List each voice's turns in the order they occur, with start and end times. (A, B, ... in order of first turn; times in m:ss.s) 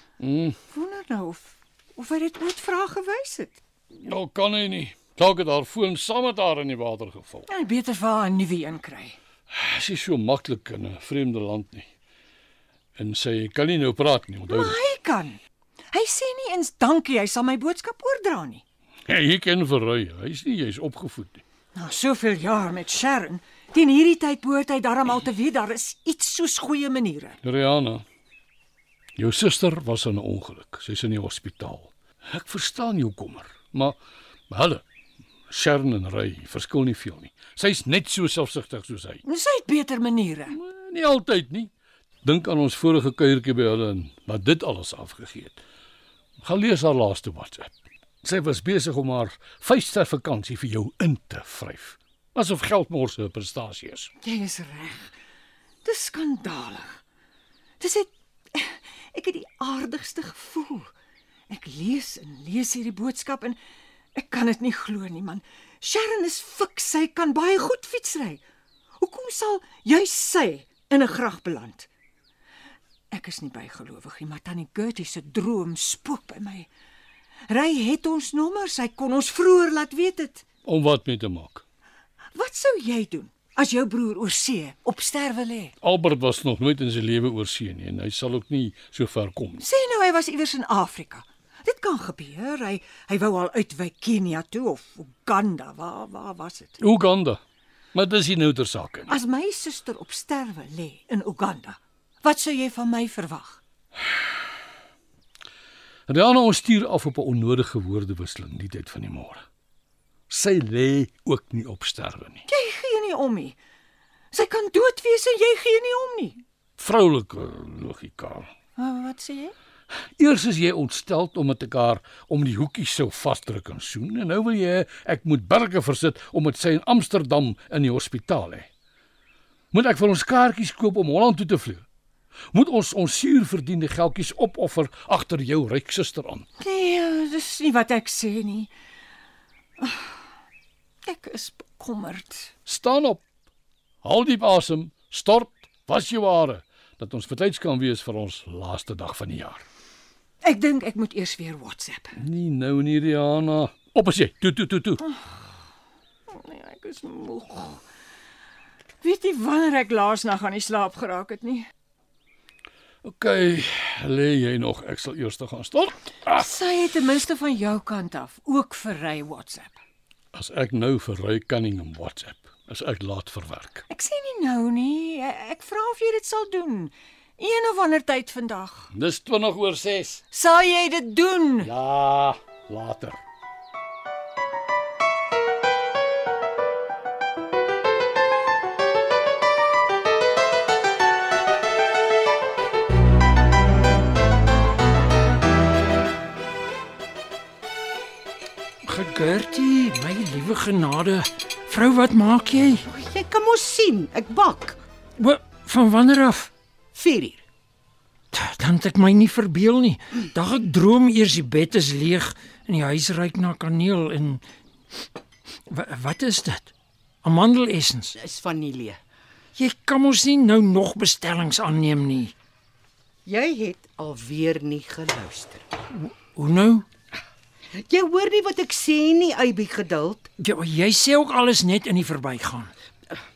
0:00.2-0:00.6 A
0:00.7-0:03.6 B
0:03.9-0:07.5 A
0:07.5-0:09.2 B
0:09.5-0:11.9 A
0:13.0-0:14.8 A
0:14.5-0:15.4 B
0:15.9-0:18.6 B
0:19.1-0:21.4 A
0:21.7-0:27.4 B
0:27.4-0:28.0 A
0:29.2-0:34.0 A
0:34.5-0:34.8 A
0:35.5-0:39.2 A
0:39.2-0:40.6 B
0:40.5-0:41.7 A
0:42.2-0:45.6 A
0:46.4-0:47.7 A
0:48.2-0:54.1 A
0:54.2-0:55.1 B
0:55.8-0:57.0 B
0:57.8-1:00.9 B
1:01.5-1:03.6 B
1:04.1-1:08.4 B
1:09.0-1:11.9 B
1:13.1-1:16.7 B
1:17.5-1:20.4 B
1:20.6-1:21.6 A
1:22.4-1:25.7 B
1:25.8-1:29.6 A
1:29.6-1:36.8 B
1:36.8-1:37.4 A
1:37.9-1:39.1 A
1:39.1-1:43.6 B
1:46.1-1:49.4 A
1:50.3-1:52.4 A
1:52.5-1:53.6 B
1:54.3-1:56.4 B
1:56.8-1:58.5 A
1:58.8-1:59.5 B
2:00.2-2:08.7 A
2:09.7-2:11.8 A
2:12.5-2:16.4 A
2:16.6-2:18.7 B
2:19.8-2:20.1 B
2:21.0-2:22.5 B
2:22.6-2:23.2 A
2:24.0-2:29.6 A
2:30.4-2:32.2 B
2:32.2-2:35.0 A
2:35.0-2:35.4 B
2:36.3-2:37.8 B
2:39.0-2:41.7 B
2:43.0-2:46.5 A
2:46.4-2:49.8 B
2:50.3-2:53.8 A
2:53.9-2:58.9 B
2:58.9-3:00.2 A
3:00.3-3:01.7 B
3:01.6-3:03.2 A
3:18.8-3:22.8 C
3:22.9-3:24.8 D
3:25.2-3:26.5 C
3:26.9-3:27.4 D
3:28.3-3:34.4 C
3:35.7-3:36.7 C
3:37.2-3:38.1 C
3:38.1-3:39.0 D
3:39.6-3:42.3 C
3:43.2-3:45.7 D
3:45.9-3:46.8 C
3:47.7-3:50.3 D
3:50.4-3:52.7 C